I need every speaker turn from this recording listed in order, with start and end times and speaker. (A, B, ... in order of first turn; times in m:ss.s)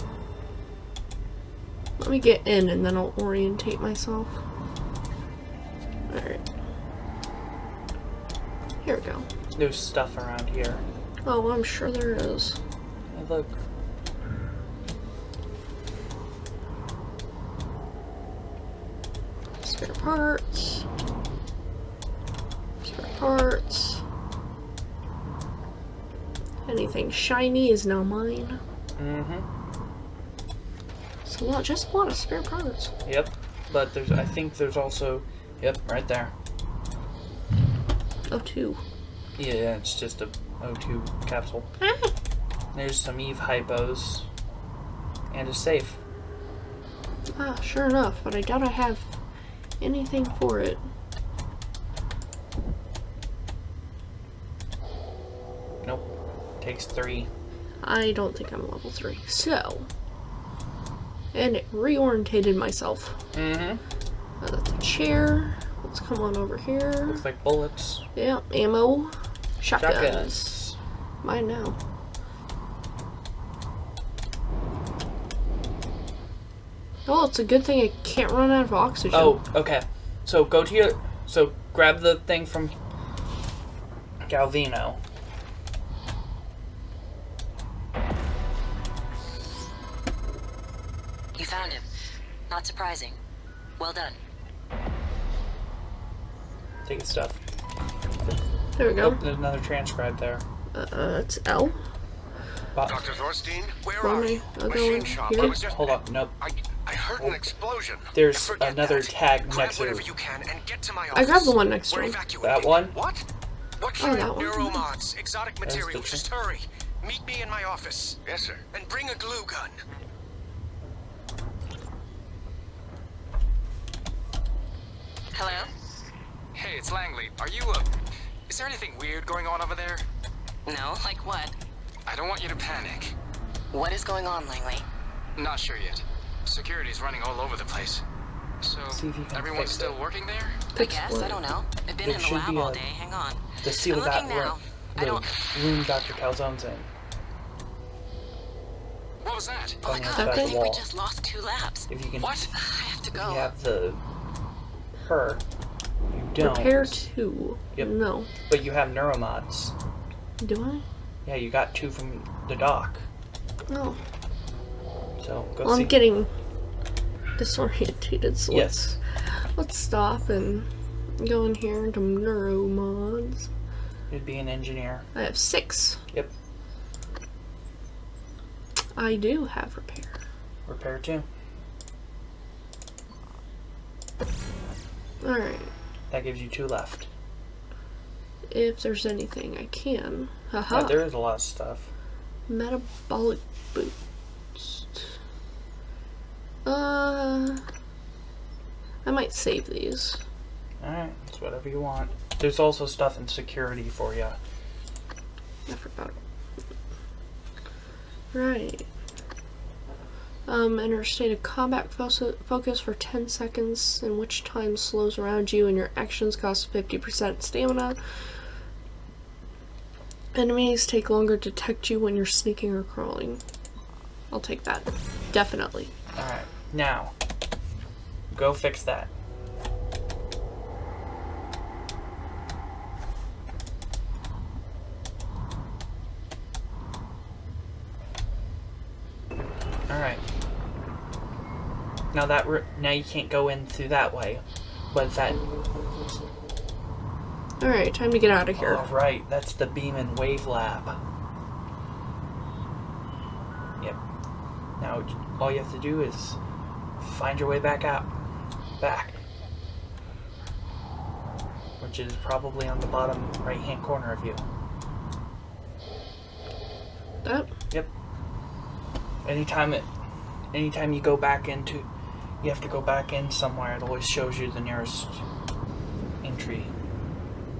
0:02.0-0:04.4 A
0:06.1-0:06.4 A
0:08.8-0:09.3 A
0:09.6-0:10.8 B
0:11.2-0:12.6 A
0:13.1-0:13.6 B
0:19.6-0:20.8 A
0:22.8-0:24.0 A
0:26.7-0:28.6 A
0:29.0-0:29.5 B
0:31.2-0:32.9 A
0:33.0-0:36.3 B
0:38.3-0:38.8 A
0:39.4-0:41.7 B
0:41.8-0:42.1 A
0:42.7-0:44.3 B
0:45.3-0:46.0 B
0:47.4-0:49.1 A
0:49.8-0:50.8 A
0:55.8-0:57.3 B
0:57.8-0:59.9 A
1:01.3-1:03.2 A
1:03.3-1:03.8 B
1:04.4-1:07.2 A
1:07.1-1:08.0 B
1:08.2-1:10.6 A
1:09.8-1:10.8 B
1:11.2-1:11.8 A
1:17.1-1:19.4 A
1:19.1-1:22.8 B
1:24.2-1:25.0 B
1:31.4-1:31.8 C
1:32.5-1:33.2 C
1:33.8-1:34.2 C
1:36.8-1:37.4 B
1:38.8-1:39.2 A
1:39.0-1:40.4 B
1:40.7-1:41.8 A
1:42.7-1:43.0 B
1:42.8-1:53.2 D
1:44.0-1:45.6 A
1:45.3-1:46.4 B
1:47.2-1:47.4 B
1:48.1-1:50.1 B
1:51.1-1:52.2 A
1:52.4-1:53.0 B
1:53.8-1:59.8 D
1:54.0-1:54.8 A
1:55.6-1:56.2 B
2:05.3-2:05.7 C
2:06.5-2:07.9 E
2:08.5-2:10.0 E
2:10.7-2:11.5 C
2:12.1-2:13.2 E
2:13.7-2:14.8 C
2:15.4-2:18.0 E
2:18.6-2:20.6 E
2:18.9-2:20.0 B
2:20.8-2:21.4 A
2:20.8-2:25.3 C
2:22.0-2:22.8 B
2:23.6-2:26.9 B
2:29.2-2:29.9 E
2:29.8-2:30.8 B
2:29.8-2:31.9 C
2:30.2-2:30.6 A
2:31.9-2:32.4 B
2:32.2-2:32.5 E
2:32.5-2:33.5 C
2:33.1-2:34.0 B
2:35.1-2:35.4 B
2:36.1-2:37.0 B
2:36.4-2:38.3 A
2:37.7-2:39.7 B
2:40.4-2:40.8 A
2:41.2-2:43.1 B
2:43.7-2:44.0 A
2:45.2-2:46.0 B
2:45.6-2:46.3 A
2:47.4-2:50.7 A
2:48.5-2:48.8 B
2:51.2-2:53.5 A
2:54.1-2:55.1 B
2:55.2-2:56.0 A
2:59.0-3:00.2 A
3:00.7-3:01.3 B
3:05.2-3:05.7 A
3:06.1-3:07.1 B
3:08.5-3:11.0 A
3:10.7-3:11.9 B
3:12.5-3:14.0 A
3:14.6-3:15.0 A
3:16.6-3:17.6 A
3:19.0-3:20.2 A
3:20.8-3:24.4 B
3:25.7-3:26.2 A
3:28.3-3:28.9 A
3:30.5-3:38.0 A
3:40.3-3:43.4 A
3:44.3-3:45.9 A
3:46.2-3:47.1 B
3:48.3-3:49.1 B
3:59.9-4:00.2 B
4:02.1-4:05.5 B
4:07.6-4:08.9 A
4:08.6-4:11.0 B
4:14.8-4:16.4 B
4:17.0-4:18.1 B
4:18.8-4:19.2 B
4:21.8-4:24.4 B
4:27.2-4:27.5 A
4:29.2-4:29.9 B
4:30.5-4:31.9 B
4:32.4-4:35.2 B
4:36.2-4:36.7 B